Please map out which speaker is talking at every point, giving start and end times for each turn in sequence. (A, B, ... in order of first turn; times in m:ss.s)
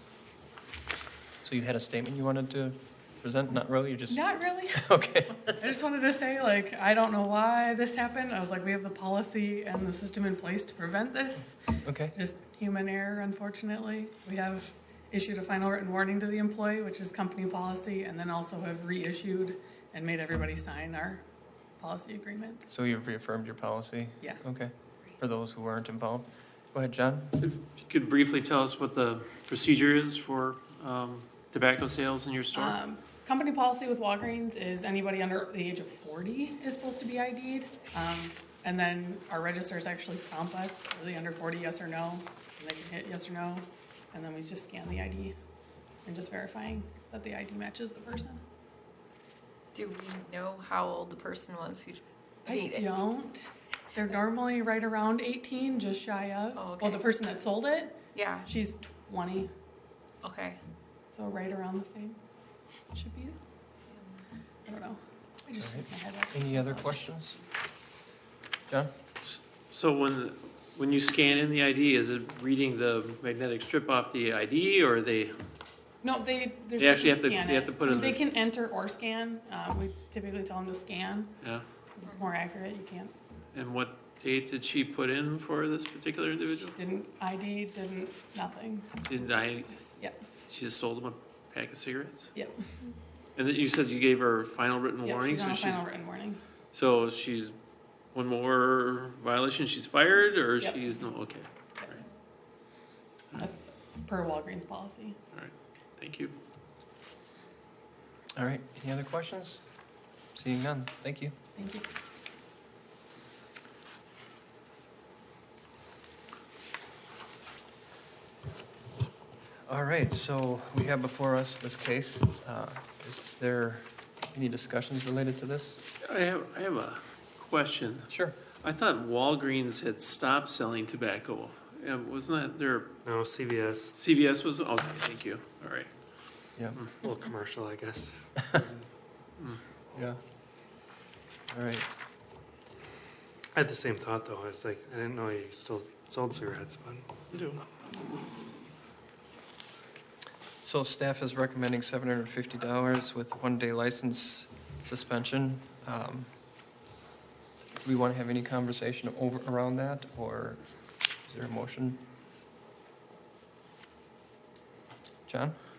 0:01.4-0:04.2 A
0:04.1-0:11.6 B
0:04.7-0:05.4 A
0:11.8-0:12.1 A
0:12.1-0:21.2 B
0:21.8-0:22.7 B
0:22.7-0:27.4 A
0:27.4-0:32.8 C
0:32.6-0:45.4 B
0:46.0-0:48.4 B
0:49.7-0:53.0 D
0:52.4-0:59.5 B
0:56.5-0:57.1 D
0:58.1-0:58.5 D
1:00.2-1:00.6 D
1:01.1-1:02.2 B
1:02.9-1:03.4 B
1:04.7-1:07.1 B
1:05.6-1:07.4 A
1:09.2-1:15.4 C
1:16.0-1:21.4 B
1:16.8-1:18.2 C
1:22.0-1:23.1 B
1:23.5-1:26.7 C
1:26.7-1:29.0 B
1:29.1-1:29.8 C
1:30.5-1:32.3 C
1:32.4-1:32.7 B
1:33.4-1:35.9 C
1:35.0-1:36.4 B
1:36.7-1:37.6 C
1:38.1-1:42.0 C
1:40.6-1:41.0 B
1:43.4-1:45.2 B
1:45.3-1:46.4 C
1:48.4-1:49.6 A
1:50.4-1:51.4 A
1:51.6-1:51.9 B
1:59.7-2:05.8 A
2:06.0-2:08.1 C
2:08.1-2:08.4 A
2:08.6-2:12.9 C
2:13.1-2:13.9 E
2:14.0-2:15.9 C
2:17.0-2:18.6 E
2:19.9-2:20.2 A
2:21.5-2:21.9 A
2:23.6-2:27.0 E
2:27.3-2:27.6 C
2:30.6-2:36.3 A
2:37.8-2:40.6 A
2:41.2-2:42.0 A
2:45.3-2:45.6 A